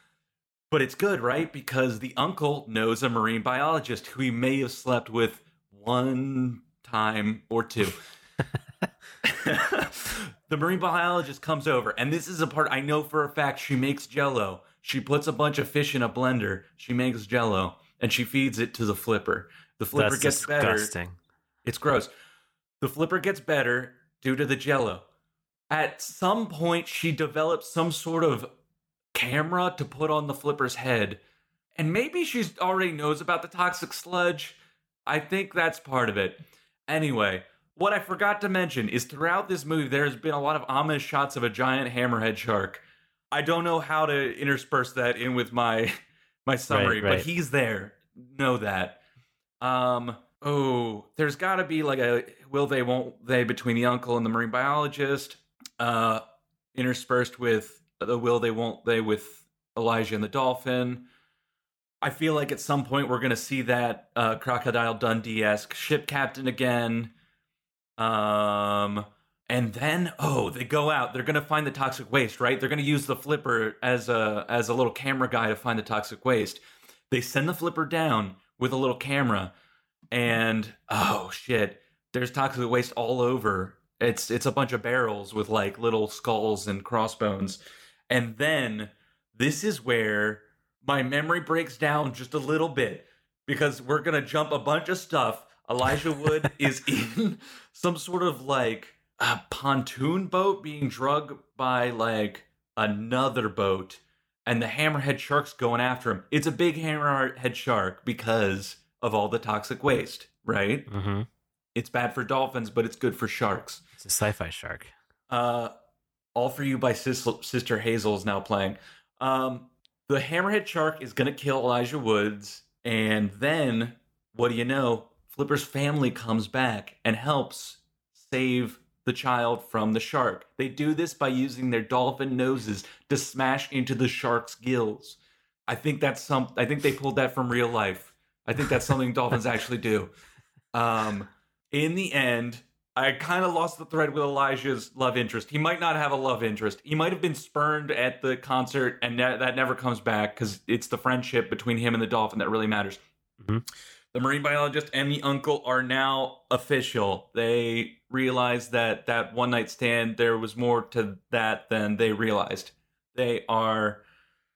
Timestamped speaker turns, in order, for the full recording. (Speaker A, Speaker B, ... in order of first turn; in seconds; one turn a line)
Speaker A: 0.7-8.0
Speaker A: 9.2-20.9
Speaker B: 19.9-21.2
Speaker A: 21.6-22.1
Speaker A: 22.8-25.0
Speaker A: 25.7-28.5
Speaker A: 29.1-31.2
Speaker A: 31.8-49.0
Speaker B: 46.7-47.3
Speaker A: 49.6-56.2
Speaker A: 56.7-61.0
Speaker A: 62.0-67.1
Speaker A: 68.0-79.5
Speaker A: 80.1-87.6
Speaker A: 88.1-110.9
Speaker B: 110.9-111.3
Speaker A: 111.8-113.8
Speaker B: 114.0-114.9
Speaker A: 115.3-115.7
Speaker A: 116.3-140.1
Speaker A: 140.7-153.0
Speaker A: 154.1-164.0